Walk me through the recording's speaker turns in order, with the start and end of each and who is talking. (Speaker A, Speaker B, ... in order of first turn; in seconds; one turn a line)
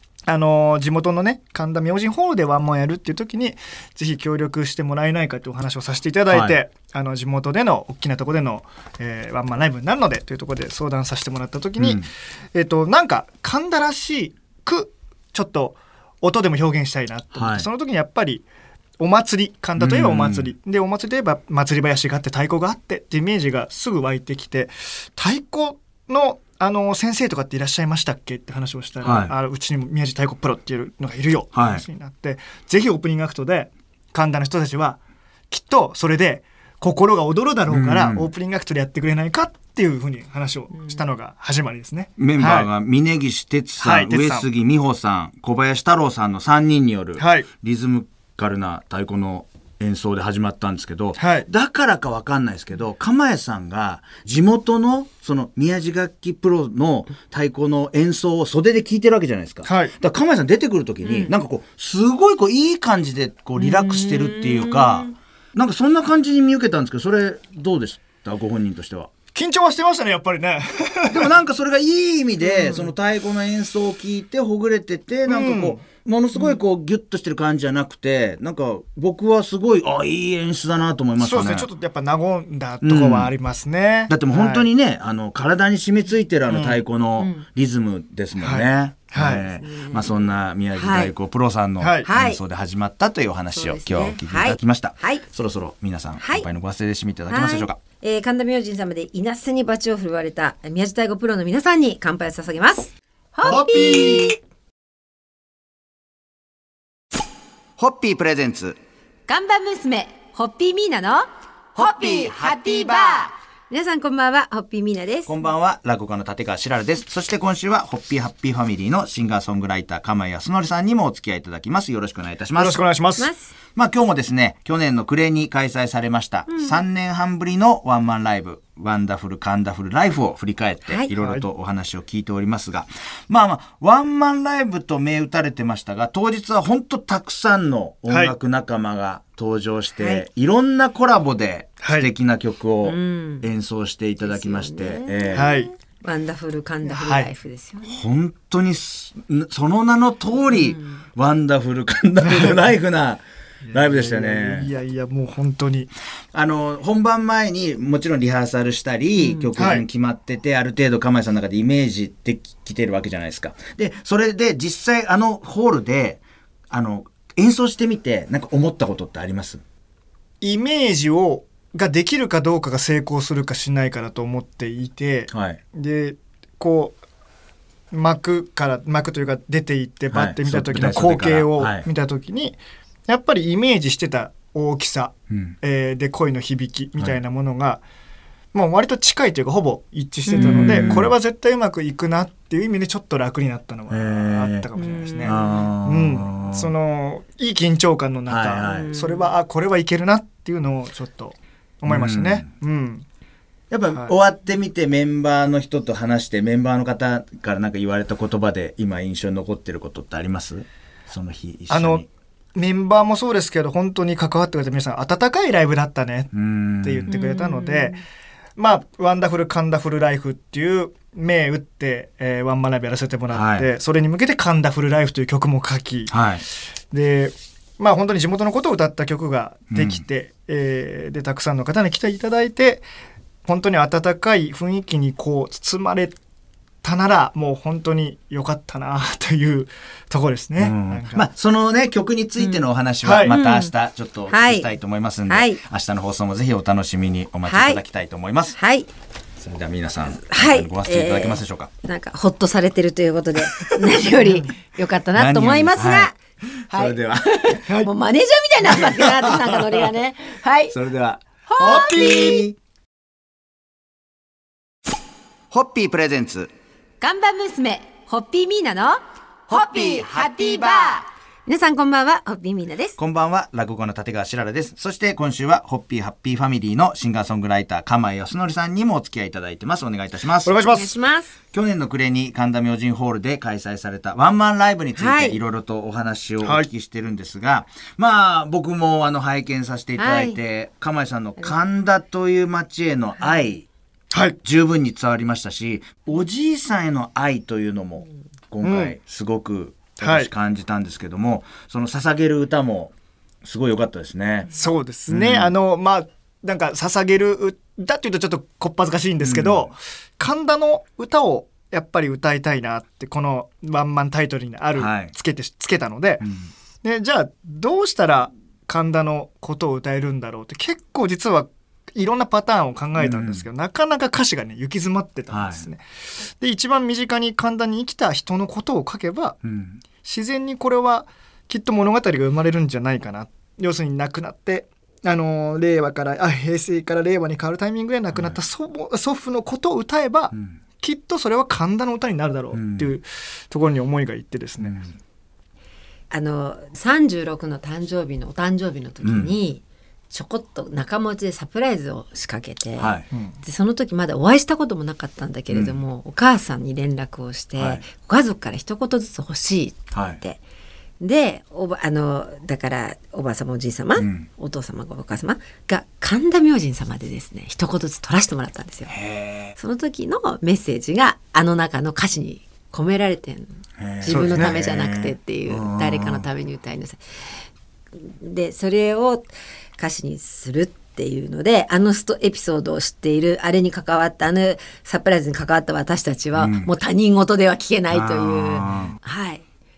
Speaker A: 0.3-18.4
Speaker B: 6.3-6.6
Speaker B: 11.8-12.1
Speaker B: 17.3-17.7
Speaker A: 19.0-35.0
Speaker B: 19.8-20.5
Speaker B: 29.0-29.3
Speaker B: 31.5-31.8
Speaker A: 35.5-42.7
Speaker B: 37.7-38.3
Speaker B: 42.2-69.1
Speaker A: 43.8-44.5
Speaker A: 47.2-47.5
Speaker A: 51.2-51.5
Speaker A: 59.6-59.9
Speaker C: 61.0-61.3
Speaker C: 63.6-65.1
Speaker A: 69.3-71.3
Speaker B: 71.1-81.7
Speaker C: 72.5-72.9
Speaker A: 75.2-75.8
Speaker A: 81.2-84.7
Speaker B: 82.8-83.3
Speaker B: 84.1-97.8
Speaker A: 86.5-86.8
Speaker C: 87.2-87.5
Speaker A: 88.4-89.5
Speaker C: 89.3-90.2
Speaker C: 90.7-91.1
Speaker A: 91.8-92.1
Speaker C: 92.0-92.4
Speaker C: 93.5-95.2
Speaker C: 96.2-96.5
Speaker C: 97.3-104.3
Speaker B: 103.4-104.3
Speaker B: 107.8-108.8
Speaker C: 109.3-115.3
Speaker B: 115.3-122.8
Speaker A: 122.5-123.3
Speaker C: 123.2-123.5
Speaker B: 123.7-145.5
Speaker C: 126.5-126.8
Speaker A: 131.1-131.4
Speaker A: 138.1-138.3
Speaker C: 140.0-140.2
Speaker A: 141.8-142.1
Speaker C: 142.8-143.5
Speaker C: 144.2-147.9
Speaker A: 145.3-145.7
Speaker A: 146.8-147.3
Speaker B: 147.8-154.7
Speaker C: 150.5-151.0
Speaker A: 152.3-152.5
Speaker A: 153.7-155.9
Speaker B: 156.3-169.6
Speaker C: 159.2-159.5
Speaker A: 159.5-159.8
Speaker A: 170.4-177.0
Speaker B: 175.3-175.6
Speaker A: 177.9-187.8
Speaker B: 180.1-181.8
Speaker B: 185.3-185.6
Speaker A: 188.5-203.0
Speaker C: 190.3-191.0
Speaker B: 190.3-191.1
Speaker B: 193.9-194.7
Speaker C: 194.7-195.7
Speaker B: 195.2-196.7
Speaker B: 198.3-198.9
Speaker C: 198.6-199.3
Speaker B: 201.8-202.5
Speaker B: 203.7-212.1
Speaker A: 211.7-212.0
Speaker A: 212.6-216.3
Speaker B: 216.3-217.1
Speaker A: 216.8-218.0
Speaker C: 217.1-218.0
Speaker A: 218.6-226.1
Speaker B: 223.3-223.7
Speaker B: 226.1-226.4
Speaker A: 226.9-232.8
Speaker B: 229.7-230.0
Speaker A: 233.4-236.2
Speaker A: 236.8-241.2
Speaker B: 240.6-248.6
Speaker C: 242.4-242.6
Speaker A: 243.0-243.3
Speaker C: 243.2-243.7
Speaker C: 244.3-244.7
Speaker C: 245.3-245.6
Speaker C: 247.4-247.8
Speaker C: 248.5-248.9
Speaker B: 249.4-251.7
Speaker C: 250.3-256.1
Speaker B: 253.6-254.0
Speaker A: 254.2-254.5
Speaker B: 255.1-257.6
Speaker C: 256.7-260.8
Speaker A: 257.6-257.9
Speaker B: 258.7-259.5
Speaker B: 260.7-262.5
Speaker C: 261.5-262.4
Speaker A: 261.6-262.5
Speaker B: 265.5-266.5
Speaker C: 267.0-272.9
Speaker B: 273.0-280.6
Speaker A: 280.4-280.9
Speaker C: 280.6-281.3
Speaker B: 281.5-293.6
Speaker C: 284.9-285.4
Speaker A: 286.4-286.7
Speaker C: 290.0-290.4
Speaker A: 294.1-294.4
Speaker B: 294.4-304.5
Speaker A: 298.6-299.0
Speaker A: 300.0-300.3
Speaker A: 304.5-316.2
Speaker B: 305.1-305.5
Speaker B: 309.2-309.7
Speaker B: 314.7-315.1
Speaker B: 316.2-316.5
Speaker A: 316.8-325.8
Speaker B: 323.0-323.4
Speaker B: 325.3-325.7
Speaker A: 326.4-329.4
Speaker B: 329.4-329.8
Speaker A: 330.0-344.8
Speaker B: 338.1-338.4
Speaker B: 340.3-340.6
Speaker B: 342.5-342.9
Speaker B: 344.6-345.0
Speaker C: 346.1-360.4
Speaker B: 349.0-349.3
Speaker B: 352.8-353.1
Speaker A: 353.1-353.4
Speaker B: 355.5-355.8
Speaker B: 357.6-357.8
Speaker B: 359.9-360.2
Speaker C: 361.0-368.9
Speaker B: 364.0-364.3
Speaker B: 368.9-369.5
Speaker C: 369.6-377.0
Speaker B: 373.8-376.2
Speaker A: 374.1-374.6
Speaker C: 378.0-389.4
Speaker B: 386.4-386.7
Speaker B: 387.9-389.0